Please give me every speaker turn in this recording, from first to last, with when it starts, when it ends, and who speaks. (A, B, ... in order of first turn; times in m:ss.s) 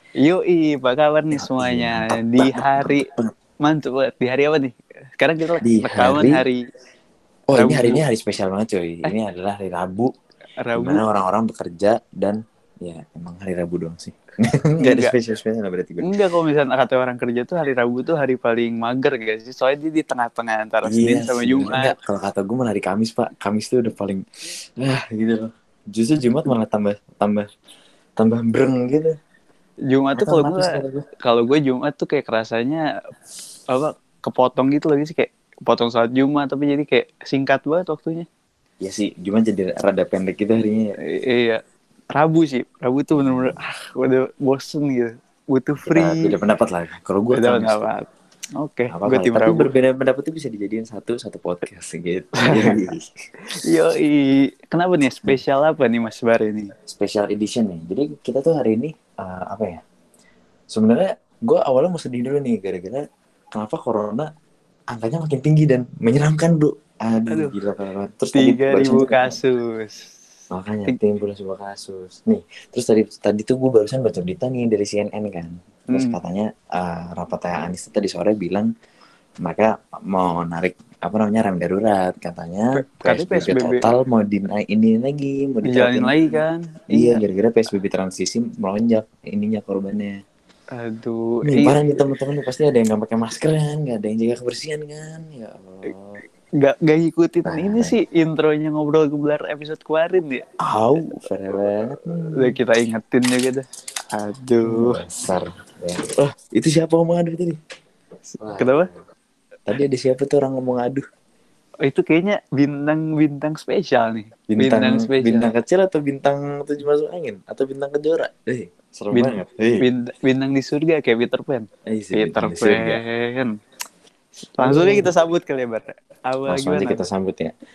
0:00.2-0:03.1 A
0:01.3-0:03.3 B
0:03.6-0:06.6 A
0:05.6-0:06.4 B
0:07.5-0:10.1 B
0:07.5-0:08.0 A
0:10.6-0:11.0 A
0:10.7-0:16.1 B
0:14.8-0:15.1 A
0:16.0-0:21.9 A
0:20.8-0:24.2 B
0:24.8-0:27.5 B
0:28.2-0:29.2 B
0:29.9-0:32.9 A
0:30.2-0:31.1 B
0:33.7-0:38.3 A
0:38.8-0:41.0 B
0:41.0-0:46.4 A
0:43.2-0:43.6 B
0:45.8-0:47.9 B
0:47.3-0:49.7 A
0:48.9-0:53.1 B
0:52.4-0:52.8 A
0:53.5-0:56.7 A
0:56.8-0:59.8 B
1:00.7-1:04.3 B
1:04.9-1:09.4 B
1:07.3-1:07.5 A
1:08.3-1:10.1 A
1:10.5-1:18.7 B
1:15.9-1:16.2 A
1:19.4-1:26.2 B
1:22.7-1:23.9 A
1:25.6-1:27.2 A
1:26.9-1:30.2 B
1:30.7-1:32.0 A
1:31.4-1:36.2 B
1:36.6-1:40.4 A
1:37.4-1:37.9 B
1:40.6-1:42.5 B
1:42.4-1:45.0 A
1:44.6-1:47.6 B
1:48.4-1:48.9 B
1:48.6-1:48.9 A
1:49.7-1:51.0 B
1:51.8-1:55.5 A
1:54.5-1:59.8 B
1:59.1-2:03.6 A
2:01.8-2:03.0 B
2:04.6-2:07.0 A
2:04.6-2:05.1 B
2:06.5-2:07.5 B